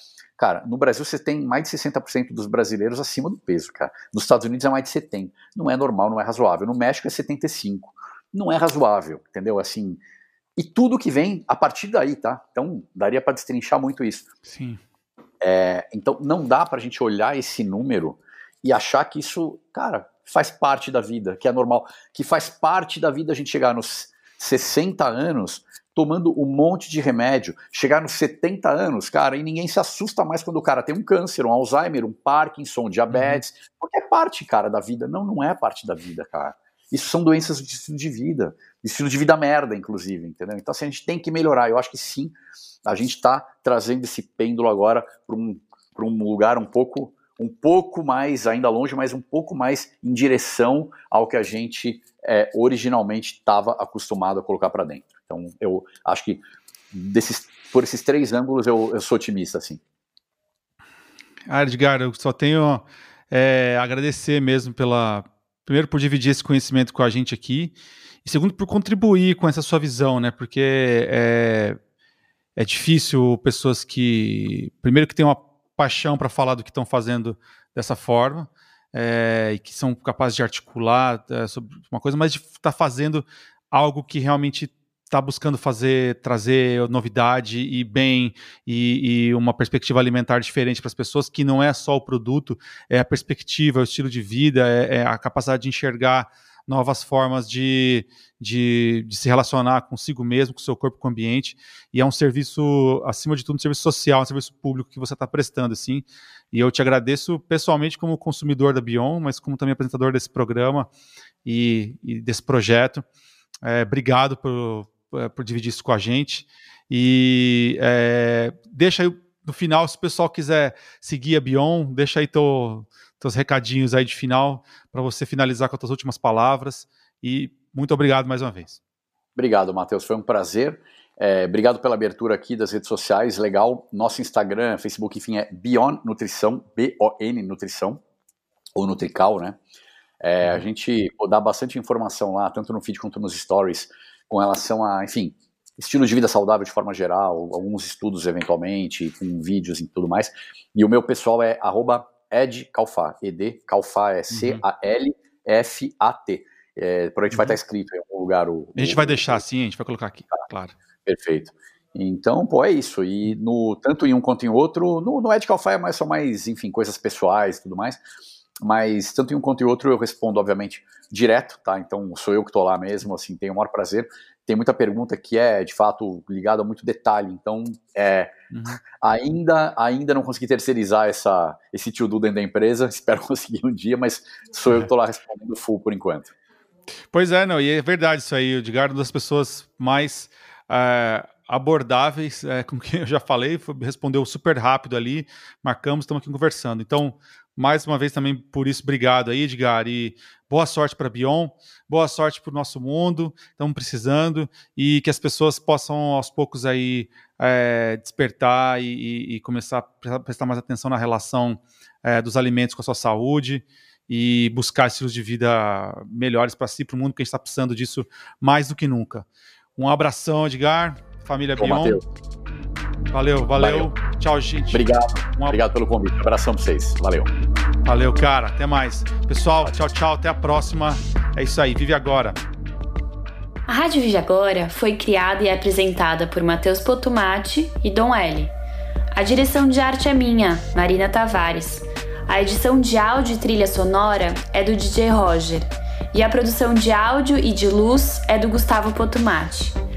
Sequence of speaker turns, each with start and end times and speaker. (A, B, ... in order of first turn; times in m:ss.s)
0:00.4-0:10.0 A
0:10.6-0:14.3 A
0:14.4-0:14.8 B
0:15.4-0:59.8 A
0:33.1-0:33.4 B
1:01.5-1:11.8 B
1:12.6-1:50.9 B
1:51.4-1:53.0 B
1:53.6-2:08.8 B
2:09.4-2:18.0 A
2:18.8-2:19.6 A
2:20.2-2:39.4 A
2:34.3-2:34.6 B
2:37.3-2:37.6 B
2:38.8-2:40.7 B
2:41.0-2:48.0 A
2:48.6-3:06.3 A
2:58.5-2:58.8 B
3:07.1-3:39.3 B
3:39.8-3:42.0 B
3:41.6-3:42.0 A
3:43.1-3:45.6 B
3:43.6-3:43.9 A
3:44.7-3:47.3 A
3:47.8-3:52.4 B
3:53.7-3:58.5 C
3:59.1-4:09.8 C